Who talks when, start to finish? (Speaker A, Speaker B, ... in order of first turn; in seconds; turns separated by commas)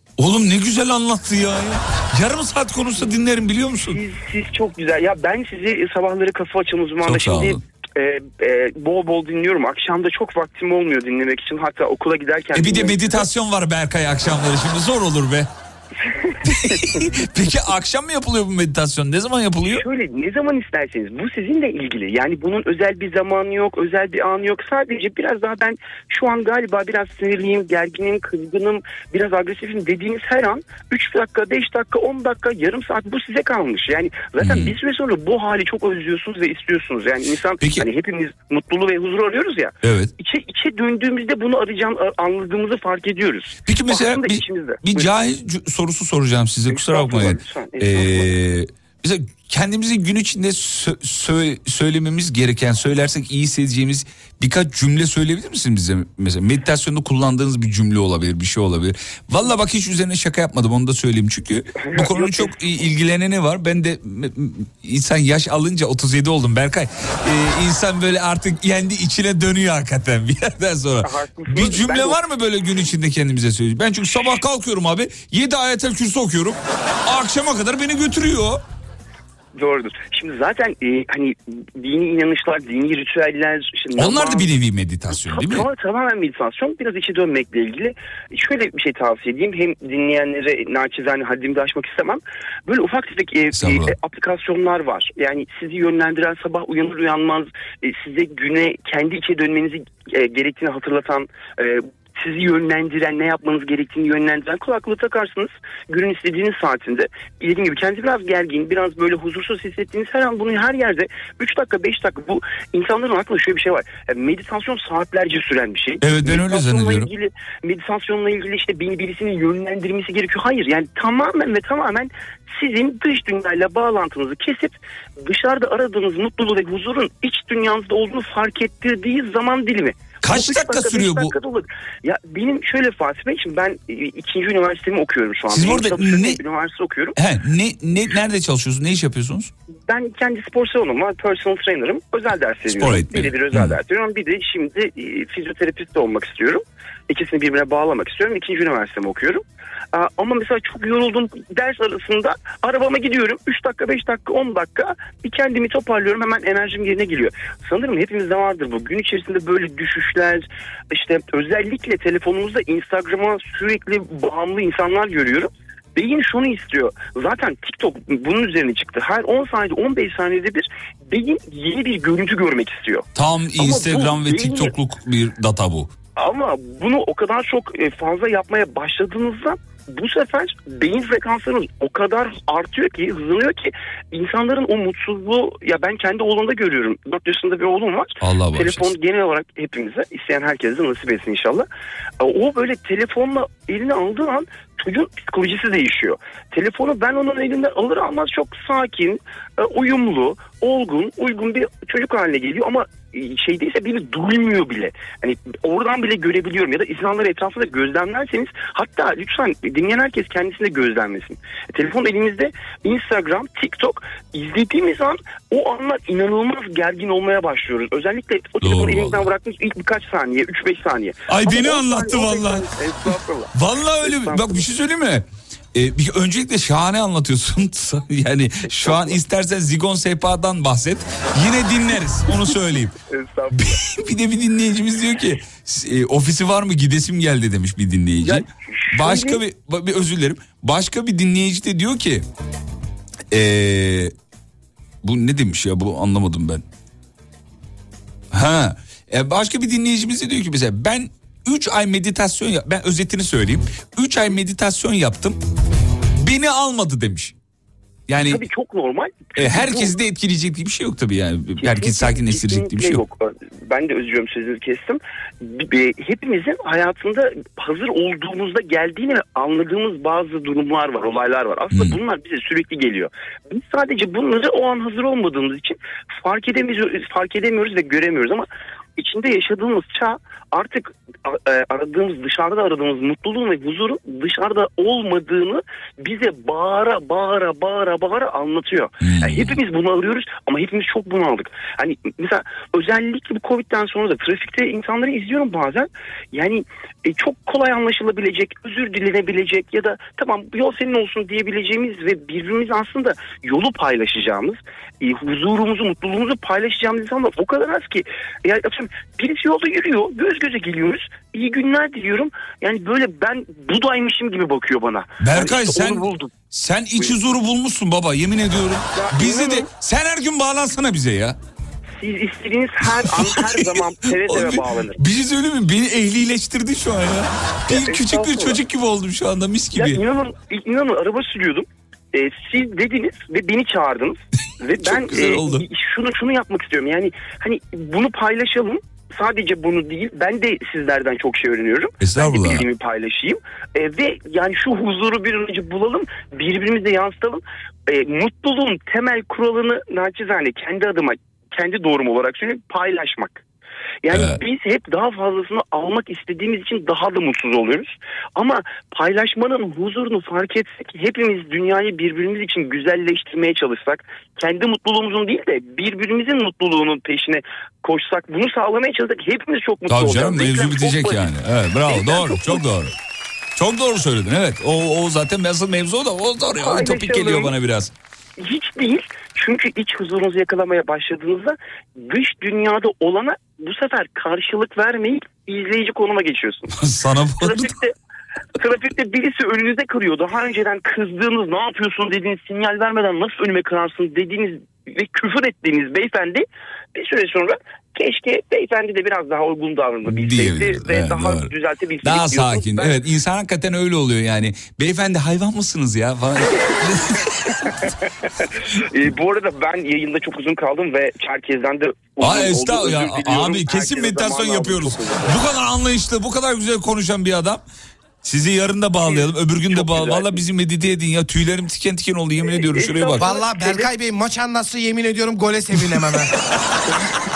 Speaker A: 0.2-4.0, Speaker B: 3.9-13.3, Speaker A: 7.0-7.6, Speaker A: 12.5-15.5, Speaker A: 16.4-19.8, Speaker B: 16.5-17.0, Speaker B: 19.6-45.1, Speaker A: 34.4-34.7, Speaker A: 37.6-37.9, Speaker A: 39.8-40.1, Speaker A: 43.7-78.6, Speaker B: 46.7-48.4, Speaker B: 61.8-62.5, Speaker B: 71.0-72.2, Speaker B: 79.6-84.5, Speaker A: 84.0-85.7, Speaker B: 85.1-137.2, Speaker A: 93.5-93.9, Speaker A: 116.0-117.1, Speaker A: 130.2-131.3, Speaker A: 135.5-136.4, Speaker A: 137.2-139.5, Speaker B: 139.9-149.4, Speaker A: 142.7-143.8, Speaker B: 149.9-174.8, Speaker A: 173.2-175.9, Speaker B: 176.2-191.7, Speaker A: 188.2-188.9, Speaker B: 192.2-224.7, Speaker A: 218.6-219.3, Speaker A: 221.3-222.7, Speaker A: 223.5-232.9, Speaker B: 228.7-229.2, Speaker B: 232.3-233.8, Speaker A: 233.5-242.2, Speaker B: 238.2-239.4, Speaker A: 243.3-244.1, Speaker A: 245.0-246.6, Speaker A: 248.3-255.4, Speaker A: 256.2-257.3, Speaker A: 258.1-258.4, Speaker B: 258.3-260.0, Speaker A: 259.4-263.0, Speaker B: 261.6-316.4, Speaker A: 271.7-272.0, Speaker A: 289.0-289.6, Speaker A: 315.2-321.4, Speaker B: 318.9-319.7, Speaker B: 322.0-325.0, Speaker A: 323.0-330.0, Speaker B: 327.7-328.6, Speaker B: 329.7-353.4, Speaker A: 334.8-335.6, Speaker A: 342.0-342.7, Speaker B: 354.0-371.3, Speaker A: 354.1-354.4, Speaker A: 369.9-372.9, Speaker B: 371.9-372.6, Speaker A: 373.6-377.9, Speaker B: 376.6-377.5, Speaker B: 378.4-386.7, Speaker A: 386.7-387.8, Speaker B: 387.4-387.9, Speaker B: 388.6-403.0, Speaker A: 400.1-401.5, Speaker A: 402.0-407.9, Speaker B: 406.4-407.9, Speaker B: 408.4-415.4, Speaker A: 412.2-417.6, Speaker A: 418.2-423.4, Speaker B: 419.1-420.4, Speaker B: 422.4-423.9, Speaker C: 423.2-426.3, Speaker A: 426.7-427.0